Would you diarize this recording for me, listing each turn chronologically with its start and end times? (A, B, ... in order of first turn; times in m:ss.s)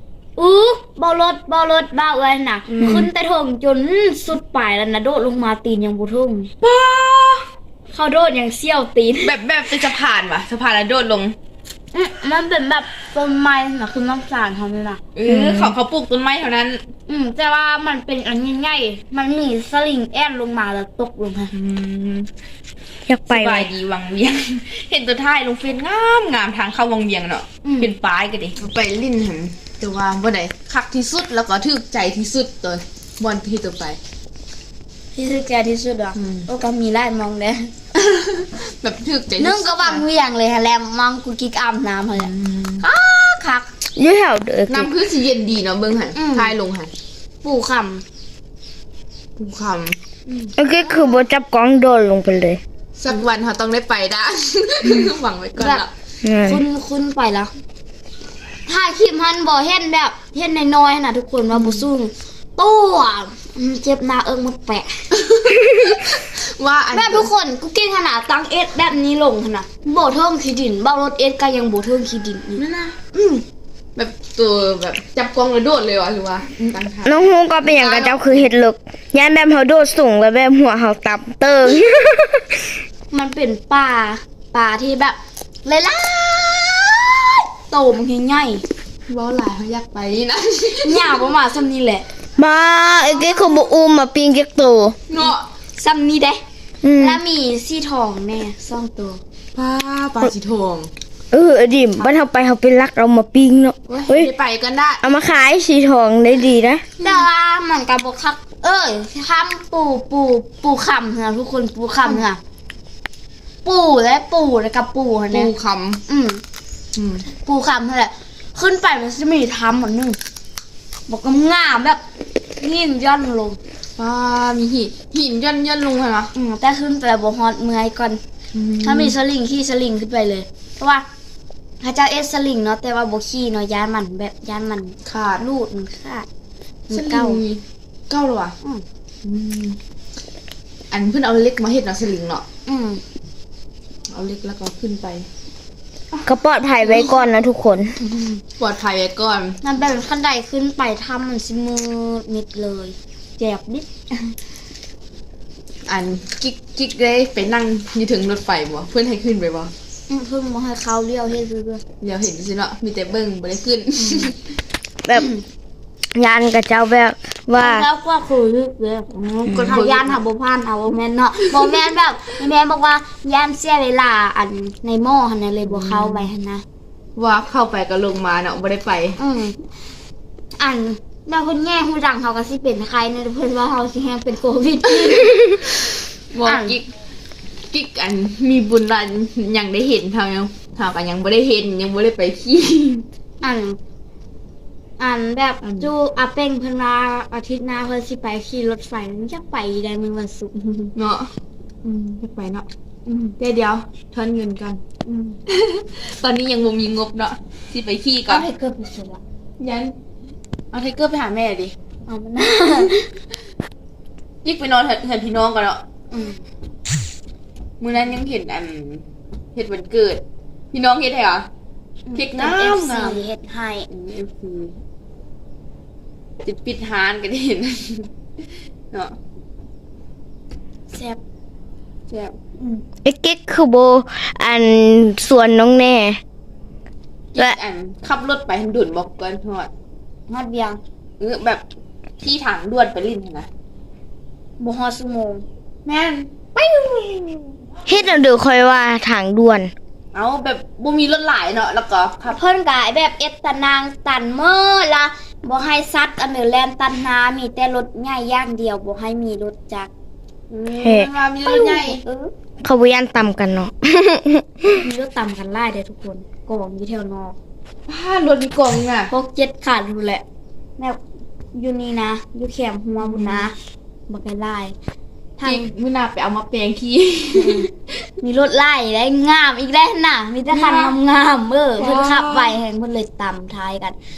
0:00.4-0:06.5 A
0:02.7-0:03.1 B
0:06.6-0:07.5 B
0:07.9-0:09.3 A
0:09.2-0:11.4 B
0:11.9-0:15.0 A
0:15.2-0:16.8 B
0:15.3-0:15.8 C
0:17.1-0:21.5 A
0:21.5-0:22.3 B
0:23.1-0:23.7 C
0:23.3-0:34.0 B
0:27.6-0:27.9 A
0:35.2-0:37.7 A
0:36.2-0:36.5 B
0:38.0-0:40.0 B
0:39.4-0:43.7 A
0:42.2-0:42.8 B
0:44.0-0:44.9 C
0:44.7-0:46.9 B
0:46.2-0:46.5 A
0:47.4-0:48.0 A
0:49.4-0:50.0 B
0:50.3-0:51.3 A
0:50.6-0:52.6 C
0:53.0-0:55.9 B
0:55.6-0:55.8 A
0:56.2-0:56.6 C
0:56.4-0:57.5 A
0:58.7-1:05.0 A
1:01.5-1:01.9 B
1:05.1-1:07.3 B
1:06.9-1:12.6 A
1:12.6-1:13.0 B
1:14.0-1:17.2 B
1:17.0-1:22.5 C
1:17.6-1:18.5 A
1:23.1-1:28.6 A
1:29.1-1:31.2 B
1:30.8-1:32.1 A
1:32.4-1:35.0 C
1:35.1-1:35.4 B
1:35.2-1:36.4 A
1:36.8-1:37.2 C
1:37.0-1:39.2 A
1:39.6-1:40.9 B
1:41.3-1:44.3 C
1:43.9-1:45.0 B
1:45.0-1:46.8 C
1:47.0-1:52.4 A
1:53.6-1:55.5 A
1:55.3-1:56.0 B
1:56.1-1:56.4 A
1:57.0-1:57.3 B
1:57.4-2:00.2 A
2:01.1-2:02.0 A
2:02.6-2:03.6 A
2:04.0-2:06.3 B
2:06.3-2:08.2 A
2:08.5-2:09.2 B
2:08.8-2:11.0 A
2:11.8-2:16.3 A
2:15.0-2:15.4 B
2:16.9-2:17.4 A
2:16.9-2:18.6 B
2:19.2-2:19.8 B
2:20.9-2:22.4 B
2:22.7-2:23.0 A
2:24.1-2:25.3 B
2:26.3-2:28.0 C
2:26.8-2:27.1 B
2:28.0-2:28.4 A
2:28.6-2:29.6 B
2:29.6-2:34.3 A
2:35.9-2:39.7 B
2:40.1-2:41.8 A
2:42.0-2:44.4 B
2:44.0-2:44.3 A
2:45.1-2:45.4 A
2:46.2-2:47.9 C
2:47.6-2:56.6 A
2:49.1-2:50.2 B
2:55.7-2:56.3 B
2:57.2-2:59.2 B
2:59.2-2:59.6 A
3:00.6-3:05.6 A
3:05.0-3:05.4 B
3:06.3-3:06.9 B
3:06.5-3:06.8 A
3:07.7-3:13.1 B
3:13.4-3:13.8 A
3:15.0-3:20.9 A
3:15.6-3:15.9 B
3:21.0-3:21.3 B
3:21.8-3:22.7 B
3:23.1-3:23.4 A
3:23.4-3:24.8 B
3:25.0-3:25.4 A
3:25.5-3:28.5 B
3:28.3-3:29.2 A
3:29.6-3:29.9 B
3:30.7-3:31.8 B
3:32.1-3:33.1 A
3:34.4-3:35.8 B
3:36.1-3:36.4 A
3:37.8-3:39.0 B
3:39.6-3:41.5 B
3:42.1-3:43.9 A
3:42.2-3:43.2 B
3:43.9-3:44.8 B
3:46.4-3:48.1 B
3:48.9-3:49.2 B
3:50.9-3:51.2 A
3:52.1-3:52.4 B
3:52.6-3:52.8 A
3:53.0-3:56.2 C
3:57.3-3:59.7 B
4:00.3-4:00.8 A
4:01.2-4:01.6 B
4:02.2-4:03.5 B
4:04.6-4:05.4 A
4:05.8-4:07.4 B
4:07.9-4:09.7 C
4:10.1-4:12.4 B
4:12.3-4:19.9 A
4:20.5-4:22.0 B
4:20.8-4:21.1 C
4:21.5-4:22.3 A
4:22.6-4:24.8 C
4:24.7-4:27.4 A
4:27.9-4:29.1 B
4:29.1-4:30.2 A
4:31.5-4:33.5 A
4:33.0-4:33.5 B
4:34.1-4:34.8 A
4:35.4-4:35.6 A
4:35.4-4:37.7 B
4:37.3-4:37.7 A
4:38.2-4:44.0 A
4:40.5-4:41.0 B
4:41.8-4:42.6 B